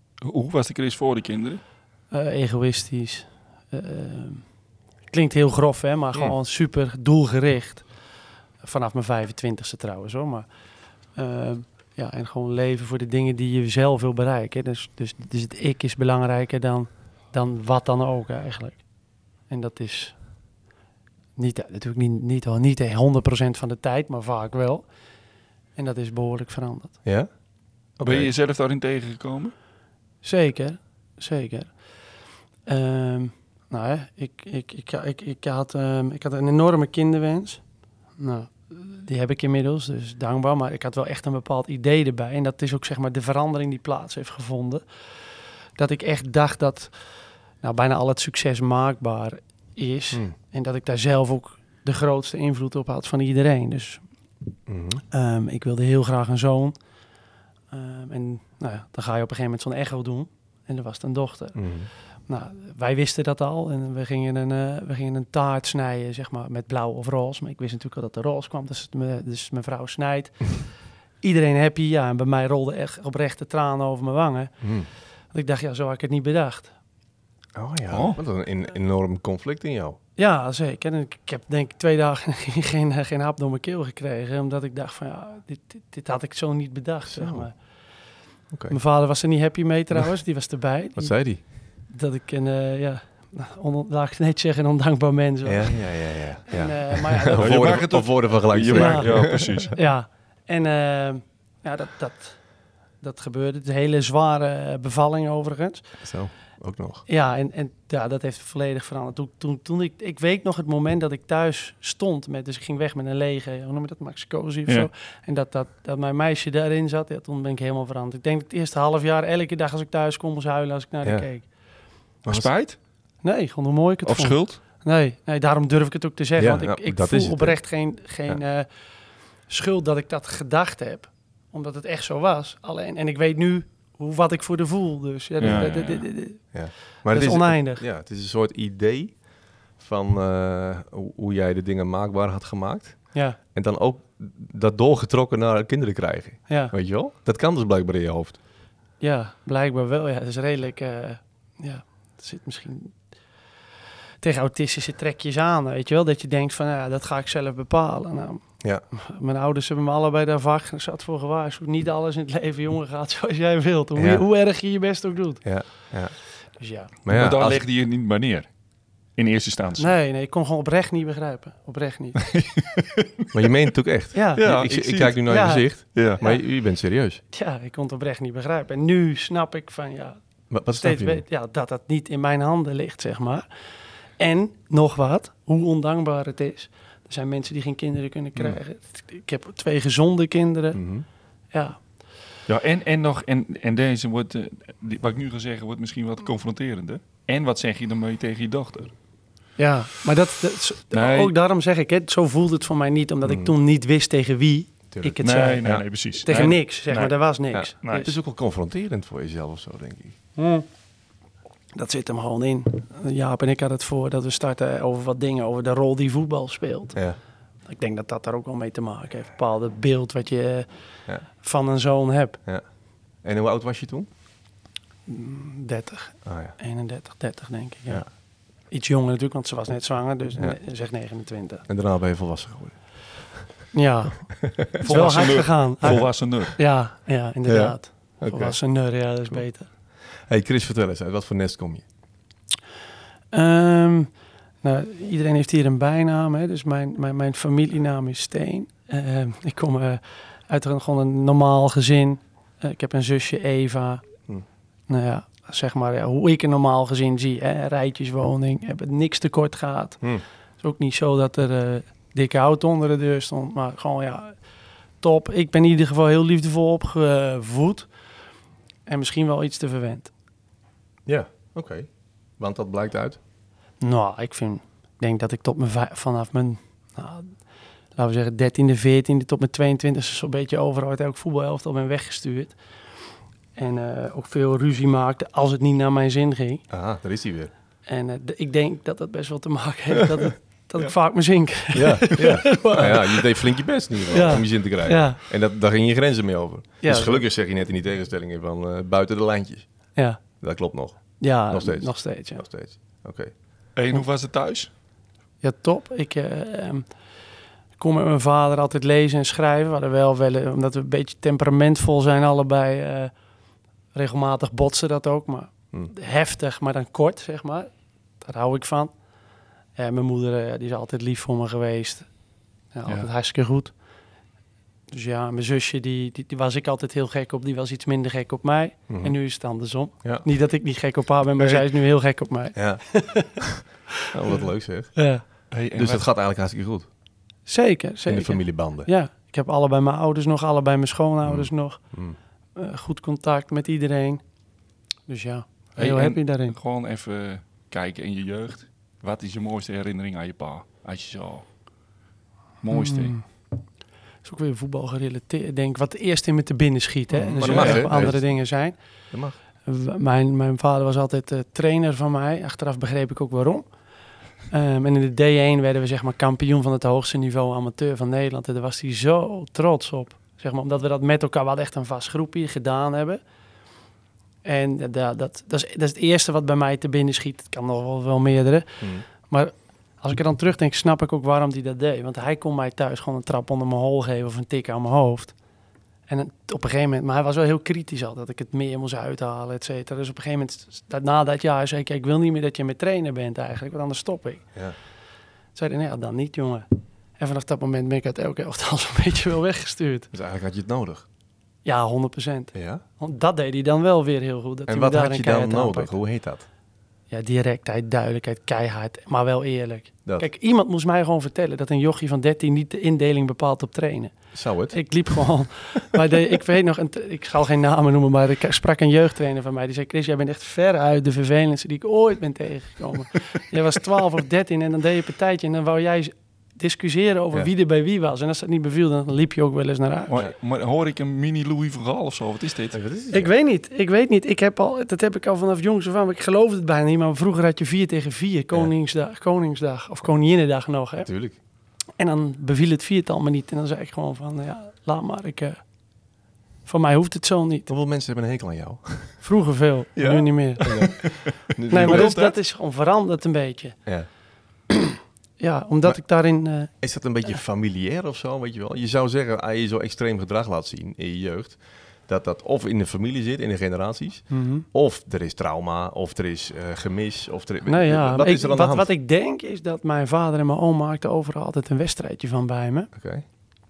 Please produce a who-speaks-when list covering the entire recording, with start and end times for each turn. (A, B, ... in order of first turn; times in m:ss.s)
0:00.2-0:01.6 A
0:02.1-0:04.5 B
0:05.1-0:10.5 B
0:11.0-0:20.5 B
0:21.4-0:24.9 B
0:25.7-0:27.0 B
0:27.0-0:28.3 C
0:28.0-0:29.5 A
0:30.2-0:37.6 B
0:38.2-0:54.0 B
0:54.7-0:55.0 C
0:55.1-0:56.8 B
0:57.7-1:16.7 B
1:01.6-1:01.9 C
1:14.6-1:14.9 C
1:17.5-1:20.0 C
1:17.9-1:18.2 A
1:20.2-1:27.8 B
1:27.1-1:27.6 C
1:28.5-1:28.8 C
1:28.7-1:37.8 B
1:30.9-1:31.4 C
1:35.4-1:39.8 C
1:37.4-1:39.8 A
1:38.7-1:46.0 B
1:46.0-1:47.0 C
1:47.0-2:01.5 B
2:02.2-2:02.5 C
2:02.3-2:02.8 A
2:03.2-2:08.7 B
2:04.0-2:04.6 A
2:06.4-2:07.6 C
2:09.4-2:17.8 B
2:15.4-2:16.1 A
2:15.4-2:15.7 C
2:16.5-2:28.4 C
2:23.1-2:23.4 B
2:26.5-2:26.7 B
2:29.0-2:33.1 B
2:34.2-2:45.9 B
2:44.0-2:44.3 C
2:45.4-2:47.6 C
2:46.6-2:46.9 B
2:47.1-2:49.9 A
2:49.8-2:52.2 B
2:52.2-2:53.5 A
2:53.3-2:57.2 C
2:54.1-2:54.7 B
2:54.4-2:56.2 A
2:55.2-2:56.5 B
2:57.3-3:00.2 B
3:00.5-3:01.2 C
3:00.7-3:03.5 B
3:04.1-3:10.8 B
3:10.7-3:11.0 C
3:11.5-3:11.8 B
3:12.5-3:19.0 A
3:19.6-3:28.1 B
3:20.9-3:21.3 A
3:23.2-3:23.5 C
3:24.9-3:25.8 C
3:25.2-3:28.1 A
3:27.5-3:30.2 C
3:30.4-3:30.7 B
3:31.7-3:42.4 B
3:42.4-3:44.1 C
3:45.0-3:51.6 B
3:46.2-3:46.5 C
3:51.7-3:53.7 C
3:53.7-3:59.7 B
3:54.5-3:54.9 C
3:54.8-3:56.6 A
3:55.8-3:56.1 C
3:57.4-4:01.8 C
4:03.3-4:14.1 B
4:14.9-4:24.4 B
4:25.0-4:27.9 B
4:28.8-4:30.1 B
4:31.0-4:33.2 C
4:33.8-4:42.6 B
4:43.5-4:46.6 B
4:46.7-4:47.5 C
4:47.8-4:53.4 B
4:51.7-5:03.3 C
4:54.1-4:55.2 B
4:56.8-4:57.2 B
4:59.9-5:00.4 B
5:01.2-5:02.4 B
5:03.7-5:04.7 A
5:05.4-5:07.0 B
5:07.7-5:13.2 B
5:13.9-5:19.0 B
5:19.7-5:23.8 B
5:24.9-5:33.6 B
5:28.9-5:29.2 C
5:30.0-5:30.3 C
5:32.5-5:36.9 C
5:34.3-5:35.2 B
5:35.5-5:36.0 A
5:37.4-5:42.0 B
5:38.1-5:38.9 C
5:41.2-5:42.2 C
5:42.5-5:44.2 B
5:45.0-5:46.5 B
5:45.8-5:51.5 A
5:52.6-5:53.2 A
5:52.7-5:53.6 B
5:54.2-5:58.8 B
5:57.1-5:58.4 C
5:57.4-5:57.8 A
5:59.1-5:59.4 C
5:59.6-6:03.7 B
6:04.4-6:13.2 B
6:14.4-6:25.3 B
6:18.8-6:19.0 C
6:26.1-6:34.5 B
6:35.5-6:36.6 B
6:37.2-6:40.1 B
6:40.1-6:41.0 C
6:41.6-6:45.9 B
6:42.5-6:42.8 C
6:44.7-6:46.4 C
6:47.1-7:10.1 B
6:54.3-6:55.2 C
7:10.1-7:12.8 A
7:12.7-7:13.3 C
7:13.1-7:21.1 B
7:21.0-7:21.4 C
7:22.0-7:25.7 B
7:26.6-7:27.7 B
7:27.7-7:29.3 C
7:29.2-7:33.8 B
7:29.9-7:32.2 C
7:31.7-7:32.3 A
7:35.4-7:37.3 B
7:35.8-7:48.9 C
7:44.3-7:44.6 B
7:47.6-7:52.9 B
7:52.9-7:53.2 C